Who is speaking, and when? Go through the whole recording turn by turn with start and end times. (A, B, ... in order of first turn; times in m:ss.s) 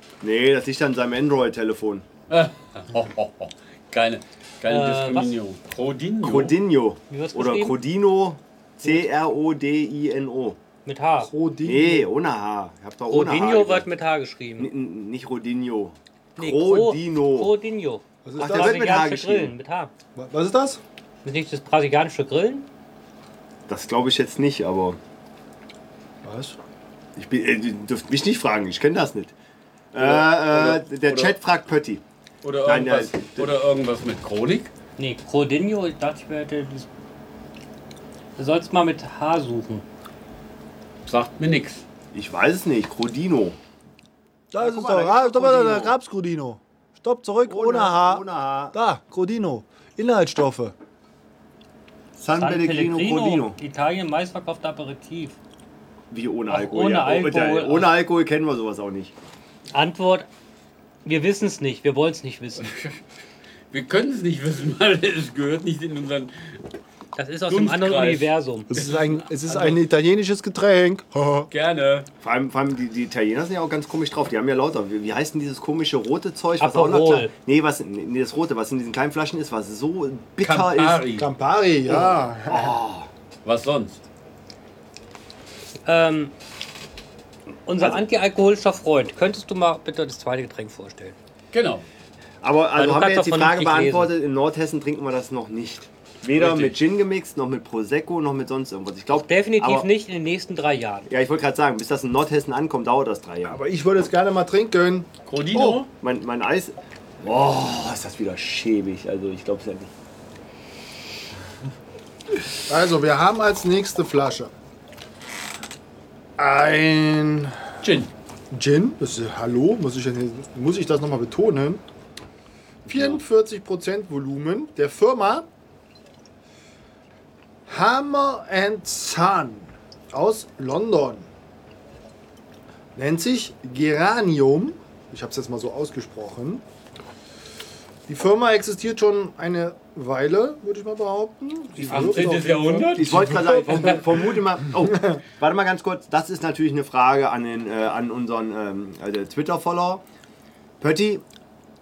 0:00.2-0:02.0 A
0:02.3-0:06.6 B
0:04.7-0:05.3 C
0:06.2-0:10.6 A
0:07.1-0:07.8 C
0:10.8-0:11.3 C
0:11.2-0:12.1 D
0:11.6-0:13.9 A
0:13.1-0:14.7 C
0:14.6-0:17.5 A
0:16.4-0:19.9 C
0:18.2-0:18.9 D
0:18.4-0:19.5 A
0:20.2-0:20.8 D
0:21.2-0:22.7 C
0:23.7-0:25.0 A
0:26.2-0:26.6 D
0:27.2-0:29.3 A
0:29.9-0:32.0 A
0:30.0-0:31.4 B
0:32.4-0:34.7 B
0:32.6-0:33.5 A
0:35.0-0:36.9 C
0:38.4-0:39.8 C
0:41.0-0:41.8 B
0:42.1-0:43.6 A
0:44.5-0:50.8 D
0:44.6-0:45.9 A
0:47.5-0:48.8 A
0:52.2-0:53.6 A
0:52.4-0:55.4 C
0:56.1-0:59.1 A
0:56.5-0:58.0 C
0:59.7-1:00.3 C
1:01.0-1:02.7 C
1:02.6-1:03.0 B
1:03.7-1:06.6 B
1:07.2-1:08.7 C
1:07.5-1:09.8 B
1:08.7-1:11.5 D
1:11.5-1:12.1 B
1:12.2-1:21.0 A
1:16.6-1:17.3 C
1:20.4-1:21.3 B
1:21.2-1:22.8 D
1:21.9-1:23.1 A
1:23.4-1:24.0 B
1:25.8-1:26.3 C
1:27.7-1:31.2 C
1:31.5-1:31.8 B
1:32.4-1:39.9 A
1:32.8-1:34.1 C
1:36.4-1:36.8 B
1:39.1-1:41.1 C
1:41.1-1:43.6 A
1:43.4-1:45.8 D
1:45.3-1:45.9 B
1:45.8-1:49.9 A
1:52.7-1:54.5 D
1:56.4-1:57.6 D
1:57.8-1:58.1 B
1:58.5-2:01.8 D
2:02.9-2:03.2 B
2:02.9-2:05.5 D
2:07.7-2:11.3 D
2:13.0-2:16.6 D
2:18.1-2:24.0 D
2:21.8-2:24.1 B
2:23.0-2:30.0 A
2:24.8-2:25.2 D
2:30.8-2:31.2 A